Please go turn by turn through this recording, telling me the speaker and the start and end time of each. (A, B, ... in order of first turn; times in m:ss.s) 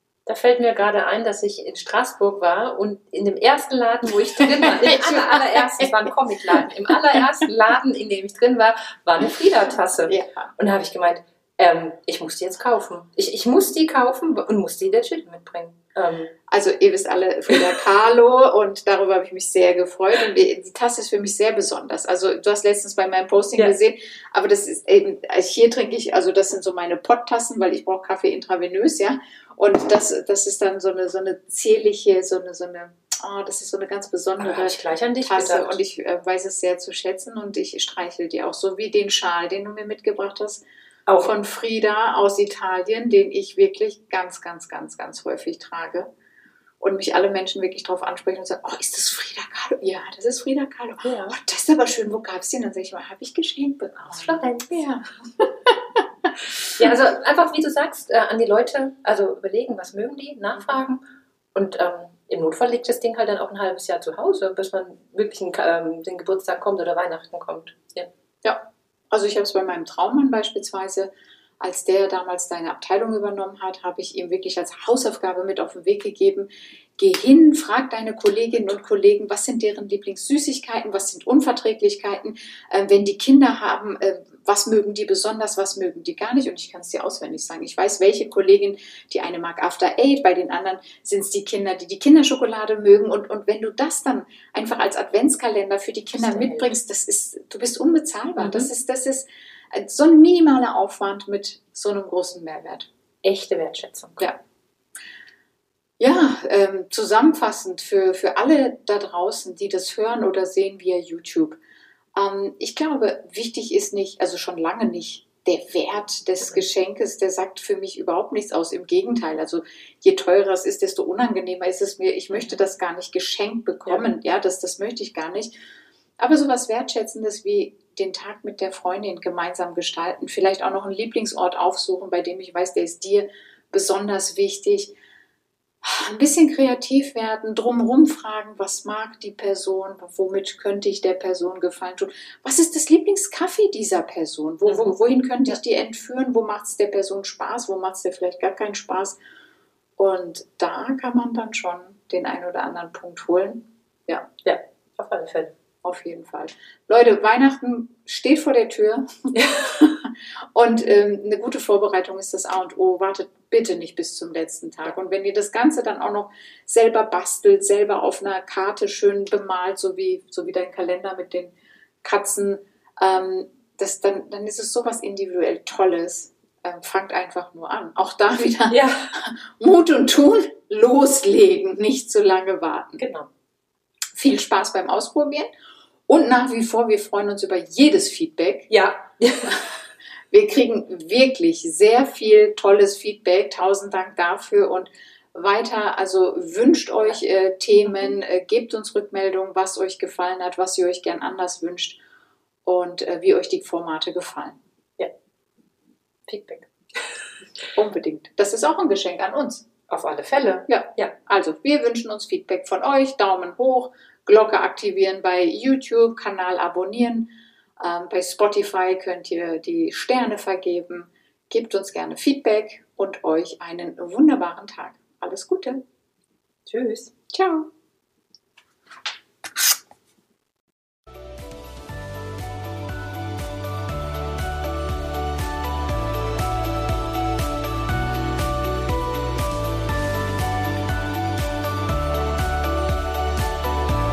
0:00.2-0:16.3 A
0:04.4-0:06.6 B
0:10.0-0:10.5 B
0:16.5-0:40.6 B
0:34.4-0:35.8 A
0:41.1-0:41.3 A
0:41.2-0:46.1 B
0:46.8-0:55.8 B
0:51.0-0:51.4 A
0:54.0-0:54.8 A
0:56.7-1:01.0 A
1:01.5-1:08.1 A
1:08.4-1:42.9 B
1:36.1-1:36.7 A
1:38.4-1:38.7 A
1:43.2-1:44.3 A
1:46.0-1:51.6 B
1:52.1-2:05.5 B
2:06.2-2:14.9 B
2:15.8-2:29.2 B
2:24.6-2:25.0 A
2:30.0-2:34.3 B
2:34.4-2:35.5 A
2:35.8-3:03.0 B
2:39.3-2:39.7 A
2:58.7-2:59.1 A
3:03.0-3:03.3 A
3:04.1-3:05.5 B
3:06.1-3:08.7 B
3:08.7-3:09.7 A
3:10.3-3:22.0 B
3:22.6-3:24.6 B
3:26.3-3:27.0 A
3:27.7-3:29.6 B
3:29.9-3:31.1 A
3:30.7-3:45.8 B
3:46.6-3:47.1 A
3:47.3-3:47.7 B